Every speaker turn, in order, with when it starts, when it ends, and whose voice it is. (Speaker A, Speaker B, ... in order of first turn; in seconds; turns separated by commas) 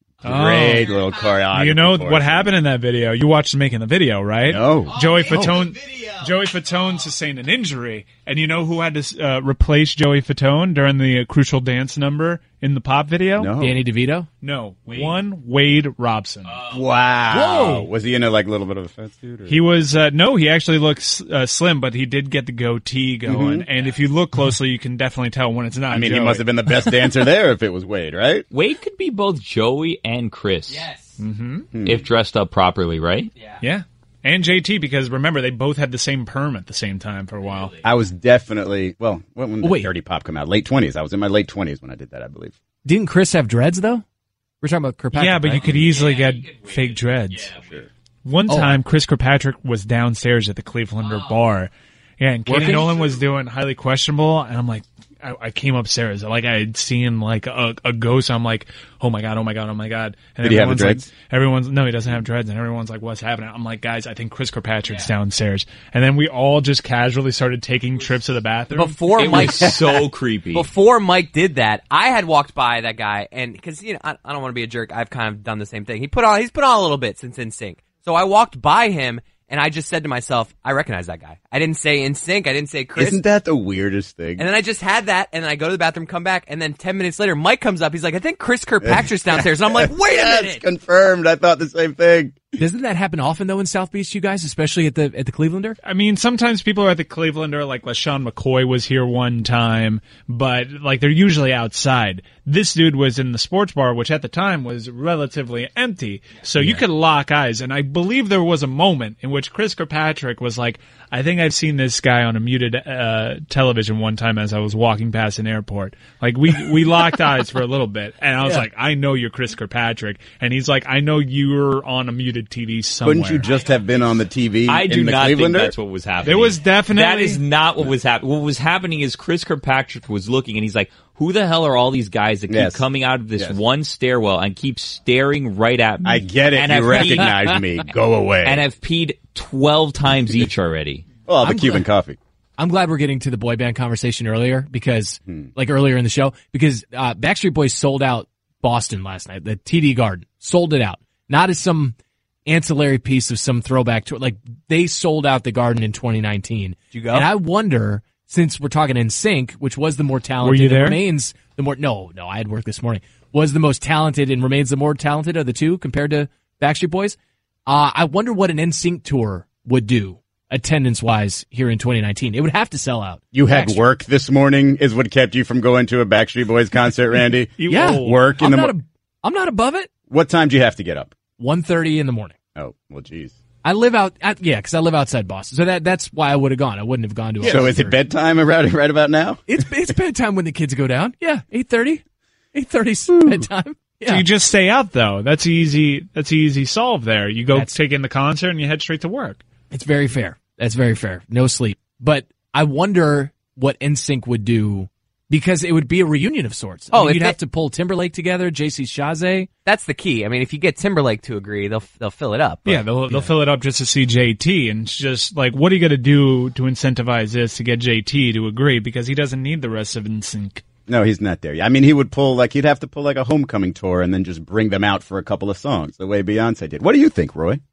Speaker A: 0.2-2.5, Speaker B: 0.3-13.5, Speaker A: 4.5-5.1, Speaker C: 5.3-5.6, Speaker A: 13.4-13.8, Speaker C: 13.6-14.3, Speaker B: 14.4-16.6, Speaker A: 16.7-19.6, Speaker C: 17.3-17.9, Speaker B: 19.5-26.5, Speaker A: 23.3-23.7, Speaker A: 25.9-28.5, Speaker D: 28.5-30.9, Speaker E: 30.7-31.0, Speaker B: 31.2-31.7, Speaker A: 31.7-32.0, Speaker D: 31.8-33.3, Speaker B: 33.6-37.8, Speaker A: 37.8-42.5, Speaker C: 39.6-39.9, Speaker C: 42.9-44.0, Speaker C: 44.6-45.9, Speaker B: 45.1-47.5, Speaker D: 46.0-46.6, Speaker B: 48.2-69.3, Speaker C: 48.5-48.8, Speaker C: 52.5-53.1, Speaker A: 60.4-61.0, Speaker E: 68.7-83.2, Speaker D: 69.1-70.7, Speaker A: 83.0-84.5, Speaker E: 84.4-90.6, Speaker A: 88.8-92.4, Speaker C: 92.6-95.8, Speaker B: 95.8-123.5, Speaker A: 123.0-125.8, Speaker D: 124.7-137.4, Speaker B: 126.2-127.4, Speaker A: 132.5-133.6, Speaker A: 136.0-138.7, Speaker C: 136.6-137.8, Speaker D: 138.4-141.1, Speaker A: 141.3-142.2, Speaker C: 141.4-141.9, Speaker C: 142.6-151.9, Speaker C: 152.5-167.2, Speaker E: 156.9-157.3, Speaker B: 160.4-161.0, Speaker C: 167.7-173.8, Speaker A: 173.3-178.8, Speaker B: 177.6-178.2, Speaker C: 177.7-179.9, Speaker A: 180.1-181.1, Speaker C: 181.4-182.3, Speaker A: 182.6-183.4, Speaker C: 183.6-188.0, Speaker A: 187.4-189.9, Speaker C: 189.5-192.0, Speaker C: 192.5-194.3, Speaker B: 194.1-199.4, Speaker C: 199.7-209.5, Speaker E: 206.9-207.4, Speaker E: 209.7-212.8, Speaker B: 212.7-220.6, Speaker C: 213.1-213.3, Speaker A: 220.9-227.6